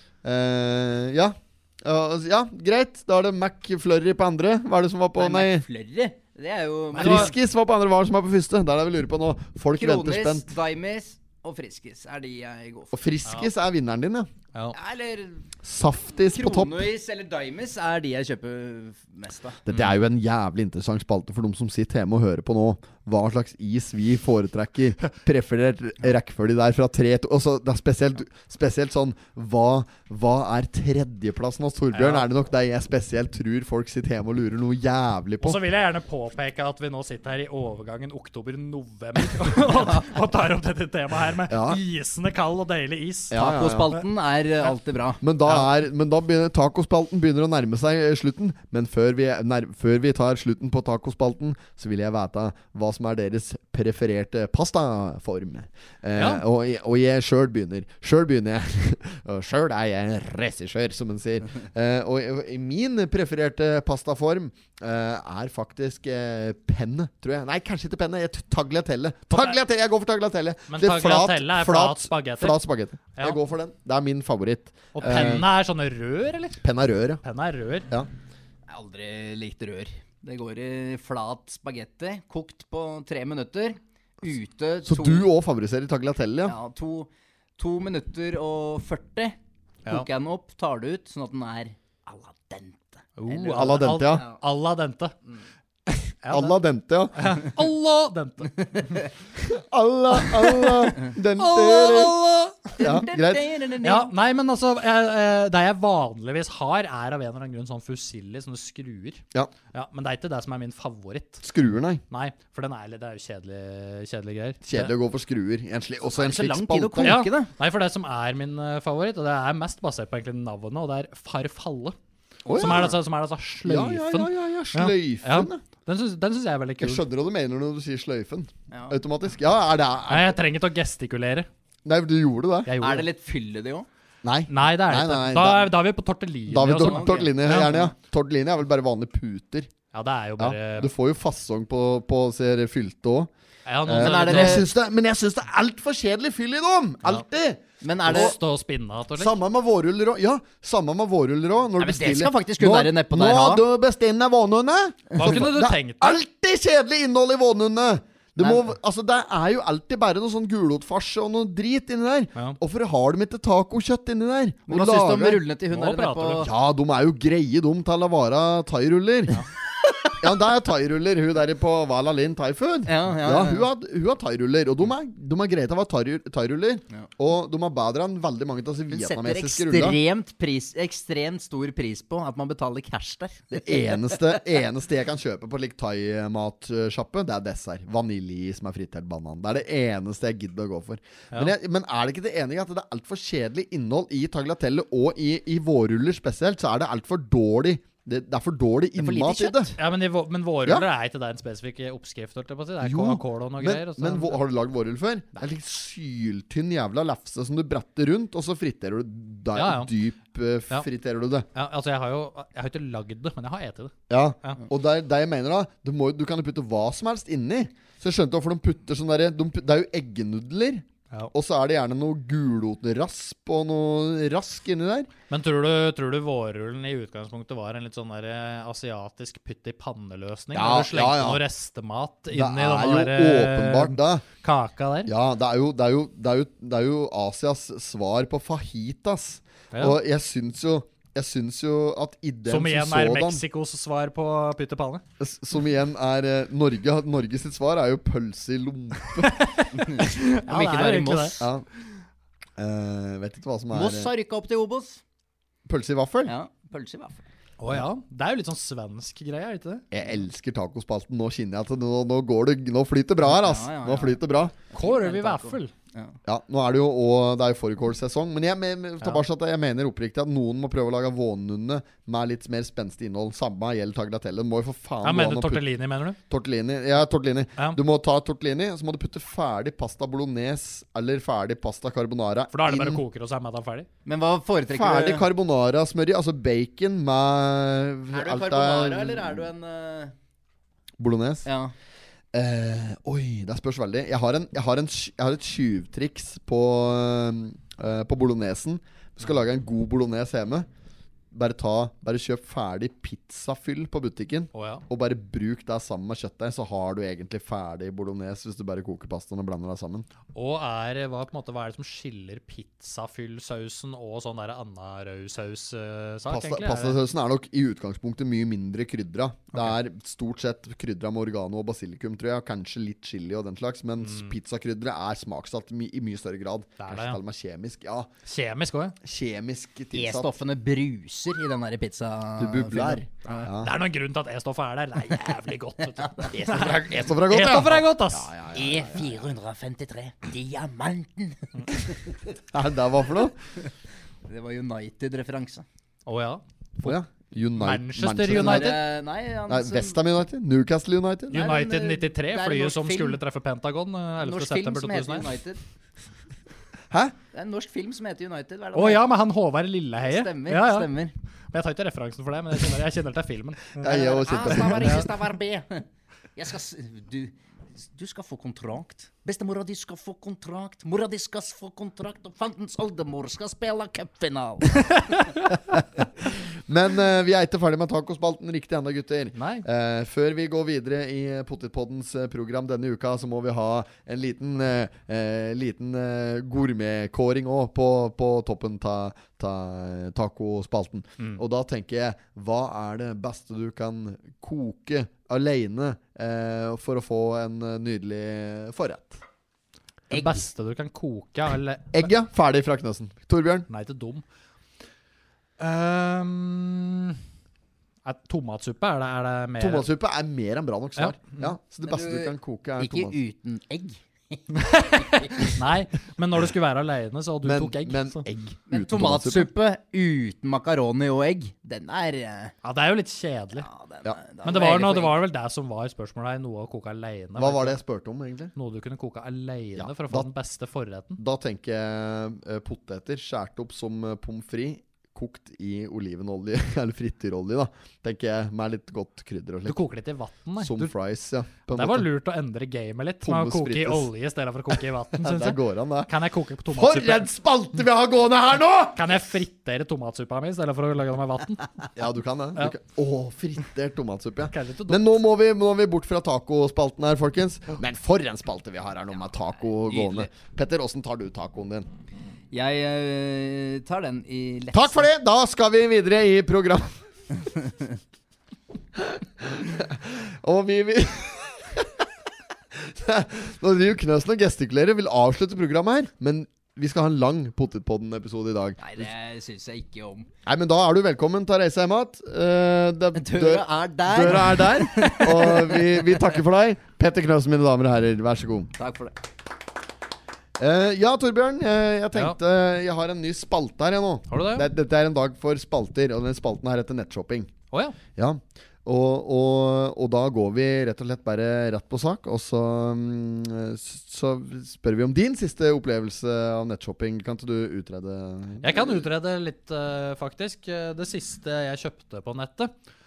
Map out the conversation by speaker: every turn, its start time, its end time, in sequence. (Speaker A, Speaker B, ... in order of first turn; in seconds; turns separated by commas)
Speaker A: 0.2-5.7, Speaker B: 5.2-7.3, Speaker C: 6.9-7.3, Speaker A: 7.0-10.5, Speaker B: 9.8-12.9, Speaker A: 12.9-14.3, Speaker B: 14.7-15.5, Speaker A: 15.6-16.9, Speaker B: 16.3-19.6, Speaker A: 19.7-35.6, Speaker C: 31.9-32.3, Speaker C: 35.4-43.4, Speaker A: 41.5-41.8, Speaker A: 43.3-44.0, Speaker B: 43.3-45.2, Speaker A: 45.2-75.5, Speaker C: 56.2-56.4, Speaker C: 69.3-69.6, Speaker C: 70.7-72.6, Speaker C: 74.9-76.6, Speaker A: 76.6-77.2, Speaker C: 77.2-77.9, Speaker B: 78.7-85.3, Speaker A: 84.8-86.6, Speaker B: 86.5-94.4, Speaker C: 93.2-95.2, Speaker A: 93.5-94.2, Speaker A: 95.9-97.3, Speaker C: 96.2-96.6, Speaker C: 97.2-99.0, Speaker A: 99.4-102.2, Speaker C: 100.2-102.8, Speaker B: 102.8-104.1, Speaker A: 102.8-103.5, Speaker C: 103.8-111.5, Speaker A: 111.4-112.0, Speaker C: 112.1-114.9, Speaker A: 114.6-117.2, Speaker B: 116.2-117.5, Speaker C: 117.0-122.0, Speaker A: 122.5-123.0, Speaker B: 122.5-122.9, Speaker C: 122.5-127.1, Speaker A: 123.6-125.6, Speaker A: 126.8-130.4, Speaker B: 128.7-129.0, Speaker C: 130.1-131.5, Speaker A: 131.8-132.7, Speaker C: 132.7-133.1, Speaker B: 132.8-133.9, Speaker A: 134.2-135.7, Speaker C: 134.5-137.9, Speaker A: 136.5-139.7, Speaker B: 136.8-137.8, Speaker C: 139.9-140.9, Speaker A: 140.4-143.3, Speaker C: 143.7-144.7, Speaker A: 143.9-148.4, Speaker B: 144.0-144.7, Speaker B: 147.8-148.4, Speaker C: 148.1-149.4, Speaker A: 149.2-165.4, Speaker B: 151.8-153.7, Speaker C: 155.1-156.2, Speaker B: 158.4-158.7, Speaker B: 164.7-166.5, Speaker C: 165.7-166.5, Speaker A: 166.4-169.4, Speaker A: 170.2-180.0, Speaker B: 172.9-173.7, Speaker B: 178.9-184.2, Speaker A: 183.5-199.8, Speaker B: 199.0-199.7, Speaker C: 199.8-204.4, Speaker A: 202.8-211.5, Speaker C: 209.6-209.9, Speaker C: 211.5-214.6, Speaker A: 214.1-225.1, Speaker C: 225.3-235.1, Speaker A: 230.5-231.4, Speaker A: 232.3-234.2, Speaker A: 235.1-243.4, Speaker C: 239.7-240.0, Speaker C: 242.5-245.0, Speaker A: 245.2-249.5, Speaker C: 249.2-251.4, Speaker B: 249.8-251.5, Speaker A: 251.4-251.7, Speaker A: 252.6-254.1, Speaker B: 253.7-255.0, Speaker A: 255.7-256.4, Speaker B: 256.2-257.3, Speaker C: 257.6-259.9, Speaker A: 259.9-264.6, Speaker B: 263.2-264.2, Speaker B: 264.7-266.2, Speaker C: 264.7-265.7, Speaker A: 266.3-275.6, Speaker C: 275.0-276.2, Speaker A: 276.3-283.0, Speaker C: 282.5-283.9, Speaker B: 284.1-285.3, Speaker A: 284.7-289.5, Speaker B: 288.1-290.1, Speaker A: 291.0-291.5, Speaker B: 291.4-291.7, Speaker A: 292.3-300.7, Speaker A: 301.3-310.1, Speaker C: 304.5-304.9, Speaker C: 310.3-317.0, Speaker A: 316.3-328.1, Speaker C: 324.0-324.3, Speaker C: 326.8-327.2, Speaker C: 328.3-329.0, Speaker A: 329.0-330.3, Speaker B: 329.9-333.0, Speaker A: 332.4-333.7, Speaker C: 333.2-338.3, Speaker A: 336.3-339.2, Speaker B: 338.5-341.9, Speaker A: 342.5-343.4, Speaker B: 344.3-345.6, Speaker C: 346.1-347.0, Speaker A: 346.8-348.8, Speaker C: 347.6-348.8, Speaker B: 348.3-350.0, Speaker A: 349.5-351.5, Speaker C: 351.3-355.3, Speaker B: 351.3-353.2, Speaker B: 354.2-355.6, Speaker B: 357.3-359.1, Speaker C: 358.7-360.9, Speaker B: 360.0-361.1, Speaker C: 361.5-363.8, Speaker A: 363.8-365.1, Speaker B: 363.8-375.1, Speaker C: 364.7-365.1, Speaker A: 375.7-399.2, Speaker C: 379.4-379.6, Speaker C: 400.1-402.1, Speaker A: 401.9-403.7, Speaker C: 403.7-404.2, Speaker C: 405.6-407.2, Speaker C: 408.1-409.9, Speaker A: 409.6-413.2, Speaker C: 411.0-411.5, Speaker B: 411.9-415.4, Speaker C: 414.6-418.2, Speaker A: 417.4-419.5, Speaker B: 418.7-422.5, Speaker C: 422.6-423.7, Speaker B: 423.6-425.2, Speaker C: 424.4-427.8, Speaker A: 427.4-428.5, Speaker C: 428.6-431.2, Speaker A: 429.8-430.3, Speaker A: 431.2-439.8, Speaker C: 439.7-440.9, Speaker A: 440.6-442.1, Speaker C: 441.7-447.3, Speaker A: 443.2-444.1, Speaker A: 445.2-446.1, Speaker A: 446.7-449.2, Speaker C: 448.9-451.7, Speaker A: 452.0-461.9, Speaker C: 454.5-455.2, Speaker B: 459.9-460.3, Speaker B: 462.5-465.1, Speaker A: 464.7-466.9, Speaker A: 469.0-472.1, Speaker A: 472.7-479.1, Speaker B: 478.8-480.3, Speaker A: 480.5-488.7, Speaker B: 483.1-486.2, Speaker B: 488.8-489.1, Speaker A: 490.6-497.5, Speaker C: 494.3-494.7, Speaker C: 497.7-498.0, Speaker A: 498.1-509.1, Speaker C: 508.6-512.7